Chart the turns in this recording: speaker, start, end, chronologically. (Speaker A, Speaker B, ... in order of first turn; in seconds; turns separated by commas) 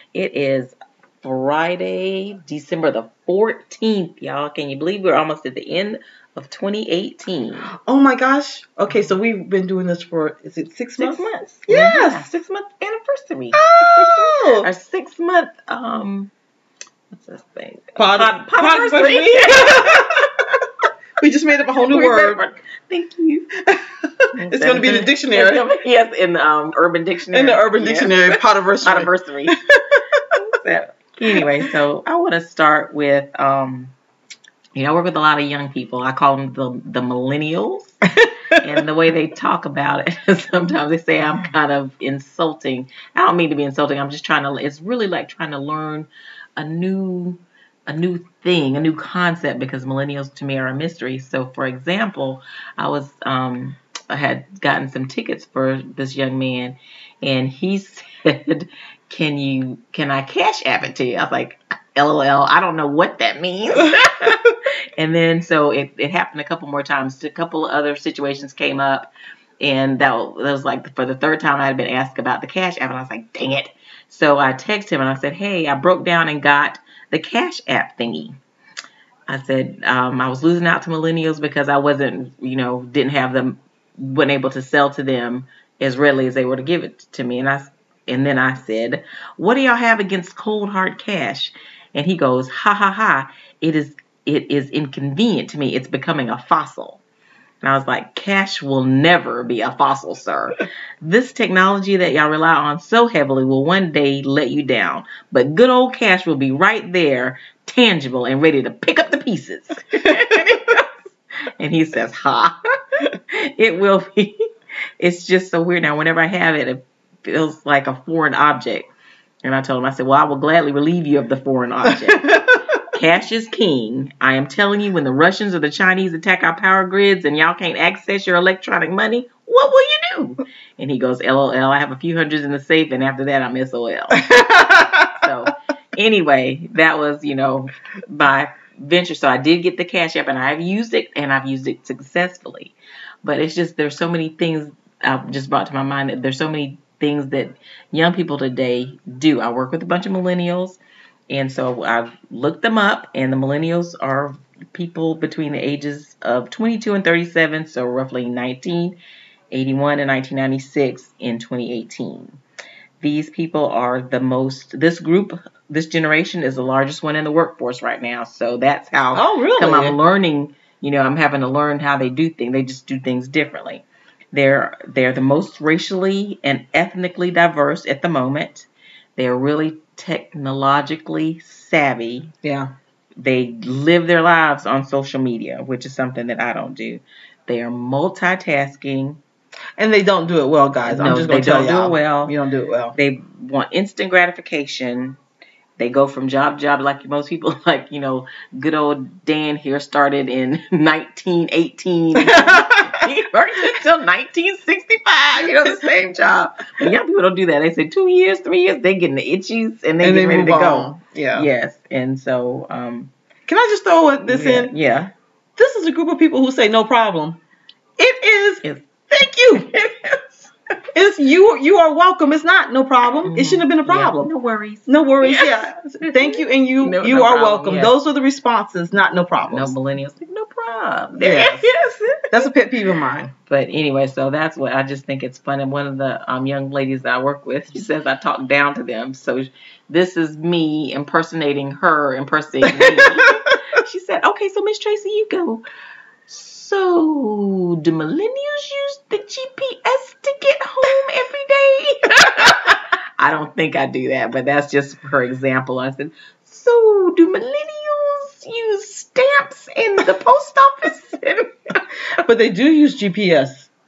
Speaker A: 0.1-7.7, Speaker B: 7.8-12.3, Speaker A: 8.9-9.2, Speaker A: 11.0-16.3, Speaker B: 13.5-14.7, Speaker A: 17.1-20.1, Speaker B: 18.0-20.3, Speaker B: 21.2-22.4, Speaker A: 21.9-23.5, Speaker B: 23.7-25.7, Speaker A: 24.4-29.6, Speaker B: 27.3-30.0, Speaker A: 30.3-33.9, Speaker A: 34.8-38.0, Speaker B: 38.2-38.6, Speaker A: 38.6-69.1, Speaker A: 69.6-78.4, Speaker A: 79.3-97.0, Speaker A: 97.6-110.9, Speaker B: 110.2-110.6, Speaker A: 111.6-114.4, Speaker A: 115.0-118.9, Speaker A: 119.4-122.4, Speaker B: 121.9-122.8, Speaker A: 122.9-134.3, Speaker B: 134.1-135.2, Speaker A: 135.2-150.8, Speaker A: 151.3-159.0, Speaker A: 159.5-162.4, Speaker A: 163.0-182.3, Speaker B: 169.1-170.0, Speaker B: 182.4-182.7, Speaker A: 183.2-189.2, Speaker B: 189.8-193.0, Speaker A: 190.8-192.4, Speaker A: 192.9-195.2, Speaker A: 195.8-213.1, Speaker B: 202.2-203.1, Speaker B: 205.4-206.1, Speaker B: 210.0-211.5, Speaker B: 213.5-214.7, Speaker A: 214.2-215.1, Speaker B: 215.6-217.4, Speaker B: 218.0-219.7, Speaker A: 218.6-220.5, Speaker B: 220.9-224.3, Speaker A: 223.2-227.9, Speaker B: 224.9-229.7, Speaker A: 229.4-232.5, Speaker B: 231.2-231.7, Speaker B: 232.3-233.3, Speaker A: 233.5-245.6, Speaker B: 242.6-243.6, Speaker A: 246.3-261.5, Speaker B: 262.2-263.7